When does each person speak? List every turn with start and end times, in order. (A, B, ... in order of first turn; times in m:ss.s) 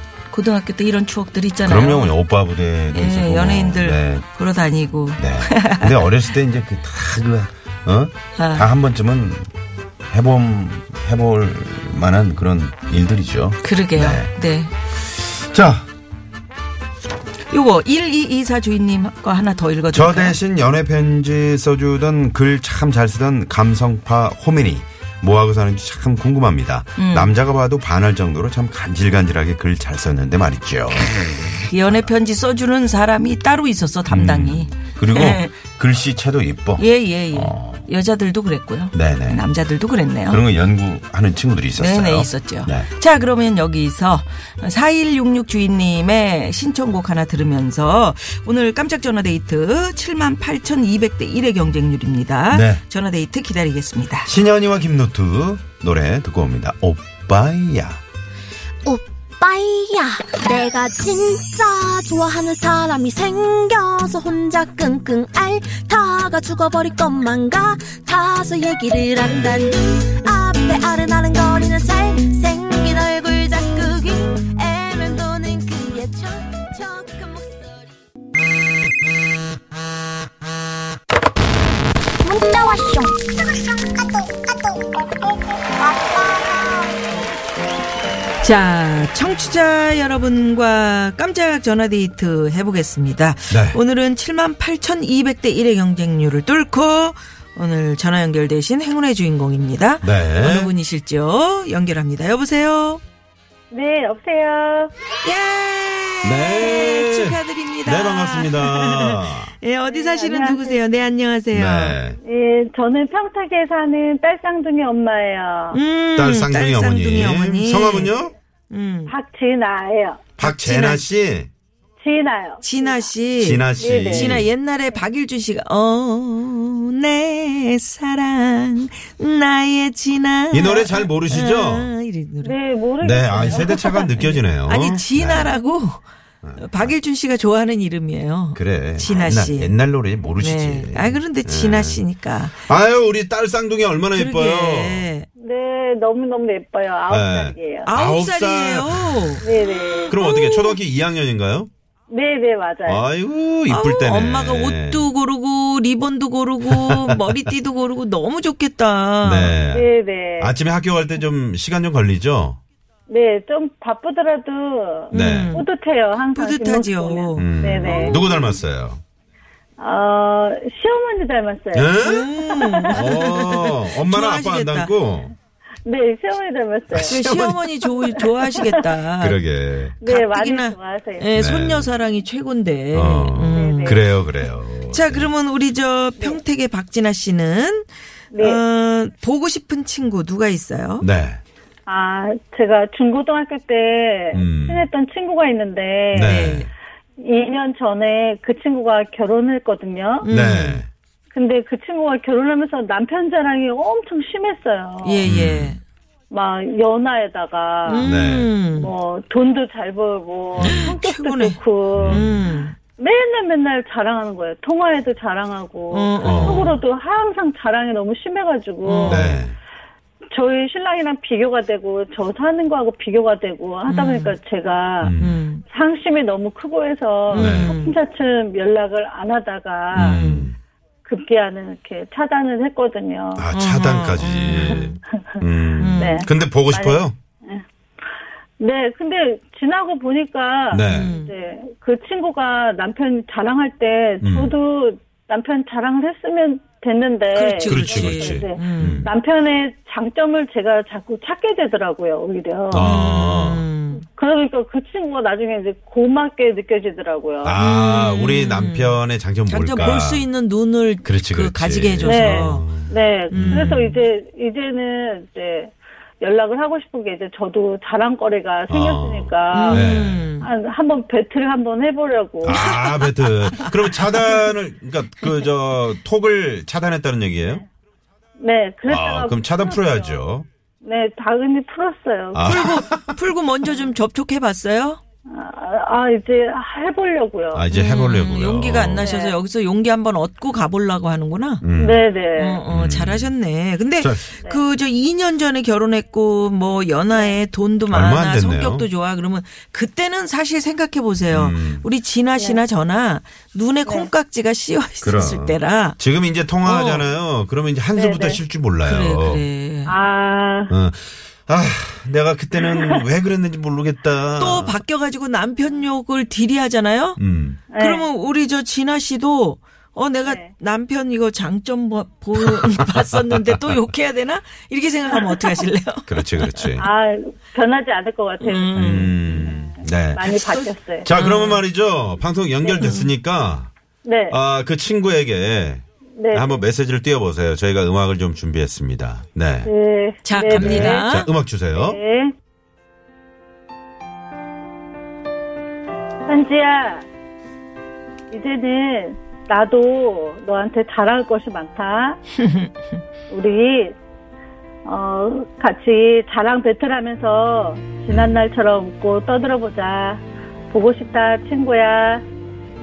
0:00.3-0:02.2 A
0:01.6-0:04.3 B
0:02.9-0:06.0 A
0:05.2-0:09.5 B
0:08.4-0:08.7 A
0:10.1-0:14.3 B
0:13.6-0:14.7 A
0:14.9-0:15.9 B
0:17.5-0:20.4 A
0:19.9-0:32.1 B
0:27.0-0:27.4 A
0:31.5-0:35.5 A
0:34.1-0:37.9 B
0:36.8-0:40.4 A
0:38.9-0:39.5 B
0:40.3-0:42.9 B
0:41.8-0:54.3 A
0:52.5-0:52.8 B
0:54.3-0:58.0 B
0:58.8-1:17.8 C
1:22.2-1:25.3 C
1:25.8-1:26.9 C
1:28.4-1:43.0 A
1:33.5-1:33.8 B
1:40.0-1:40.7 B
1:43.7-1:44.9 D
1:45.2-1:52.0 A
1:46.2-1:49.5 B
1:49.9-1:50.8 D
1:51.5-1:52.2 B
1:52.2-1:55.8 D
1:55.7-1:58.1 A
1:56.2-1:58.3 B
1:58.7-1:59.1 A
1:59.1-2:00.3 D
2:00.4-2:01.5 B
2:00.4-2:01.0 A
2:02.0-2:03.1 D
2:02.6-2:12.5 A
2:03.4-2:04.5 B
2:03.8-2:04.4 D
2:10.5-2:11.9 B
2:12.4-2:13.8 D
2:13.0-2:15.6 B
2:13.4-2:16.0 A
2:16.4-2:17.0 B
2:16.6-2:19.8 A
2:18.6-2:22.0 B
2:20.4-2:22.6 A
2:22.6-2:25.1 B
2:24.2-2:25.3 A
2:25.4-2:27.9 D
2:27.1-2:29.4 B
2:27.8-2:30.8 A
2:29.4-2:30.2 D
2:30.1-2:31.7 B
2:32.1-2:33.0 D
2:32.9-2:35.1 B
2:33.7-2:39.6 A
2:36.7-2:37.4 B
2:39.2-2:42.6 B
2:39.7-2:40.5 D
2:43.1-2:48.6 D
2:45.1-2:45.7 A
2:45.1-2:45.5 B
2:46.3-2:48.2 A
2:47.4-2:49.0 B
2:49.8-2:53.5 D
2:51.7-2:52.3 B
2:52.0-2:54.9 A
2:52.9-2:55.3 B
2:55.8-2:57.2 D
2:56.9-2:57.7 B
2:57.0-2:59.4 A
2:58.2-2:58.7 D
2:59.2-3:00.0 B
3:00.0-3:01.3 D
3:00.0-3:04.0 A
3:01.4-3:01.9 B
3:02.9-3:05.3 B
3:03.5-3:04.0 D
3:04.9-3:11.1 A
3:08.3-3:08.6 D
3:11.0-3:11.4 B
3:11.9-3:16.3 D
3:14.3-3:14.9 B
3:16.1-3:16.7 B
3:16.2-3:16.7 A
3:17.2-3:20.3 D
3:20.2-3:20.8 A
3:20.3-3:20.9 B
3:21.3-3:25.2 D
3:25.0-3:25.8 A
3:25.2-3:25.8 B
3:26.3-3:28.1 D
3:27.9-3:28.9 A
3:28.0-3:28.5 B
3:28.8-3:32.3 D
3:30.6-3:31.0 B
3:30.6-3:32.8 A
3:31.9-3:32.4 B
3:33.0-3:39.4 D
3:35.9-3:36.8 A
3:36.2-3:36.7 B
3:38.8-3:39.4 A
3:39.0-3:39.6 B
3:40.3-3:45.1 D
3:43.9-3:44.4 A
3:45.0-3:45.4 B
3:45.2-3:45.6 A
3:45.7-3:50.5 D
3:47.3-3:47.9 A
3:47.3-3:47.8 B
3:49.9-3:50.6 B
3:50.0-3:50.4 A
3:51.0-3:53.5 D
3:53.4-3:57.2 B
3:53.5-3:55.0 A
3:54.5-3:55.4 D
3:55.8-3:56.3 A
3:56.0-3:57.6 D
3:58.6-4:13.0 D
4:00.7-4:01.2 B
4:00.9-4:01.3 A
4:04.2-4:04.6 B
4:07.3-4:09.1 A
4:07.6-4:09.1 B
4:12.7-4:13.7 B
4:12.7-4:14.0 A
4:14.0-4:17.6 D
4:17.4-4:20.3 B
4:17.6-4:22.6 A
4:21.0-4:23.9 B
4:22.0-4:29.9 D
4:23.3-4:24.0 A
4:28.7-4:30.3 B
4:29.5-4:30.5 A
4:30.4-4:32.7 D
4:32.4-4:37.6 B
4:32.5-4:34.4 A
4:38.4-4:40.2 D
4:38.9-4:40.5 B
4:40.8-4:42.6 D
4:42.3-4:43.2 B
4:42.4-4:45.0 A
4:45.3-4:47.7 D
4:47.5-4:49.1 B
4:47.7-4:51.6 A
4:49.0-4:49.4 D
4:51.6-4:52.0 B
4:51.8-4:52.6 D
4:52.4-5:06.0 A
4:52.7-4:53.3 B
4:54.0-4:54.3 B
4:57.1-4:57.4 D
4:57.9-4:58.9 B
5:01.3-5:01.9 B
5:03.9-5:04.1 D
5:05.0-5:09.4 B
5:06.6-5:07.1 A
5:07.9-5:08.4 D
5:08.8-5:09.9 A
5:09.8-5:10.8 D
5:10.7-5:14.8 B
5:12.6-5:13.0 D
5:14.4-5:26.8 A
5:17.2-5:17.6 B
5:17.7-5:18.0 D
5:20.2-5:20.5 D
5:22.4-5:23.8 B
5:26.1-5:26.9 B
5:26.8-5:31.1 D
5:28.4-5:29.5 A
5:28.8-5:30.4 B
5:30.3-5:31.6 A
5:31.0-5:33.7 B
5:32.6-5:33.0 D
5:32.8-5:33.1 A
5:34.0-5:34.4 D
5:34.3-5:39.7 B
5:36.2-5:36.6 D
5:39.6-5:41.2 D
5:40.2-5:41.3 A
5:40.4-5:42.0 B
5:41.7-5:42.3 D
5:46.3-5:47.1 D
5:48.3-5:52.2 D
5:52.4-5:52.7 A
5:53.3-5:54.0 D
5:54.8-6:02.2 D
5:58.1-5:58.4 B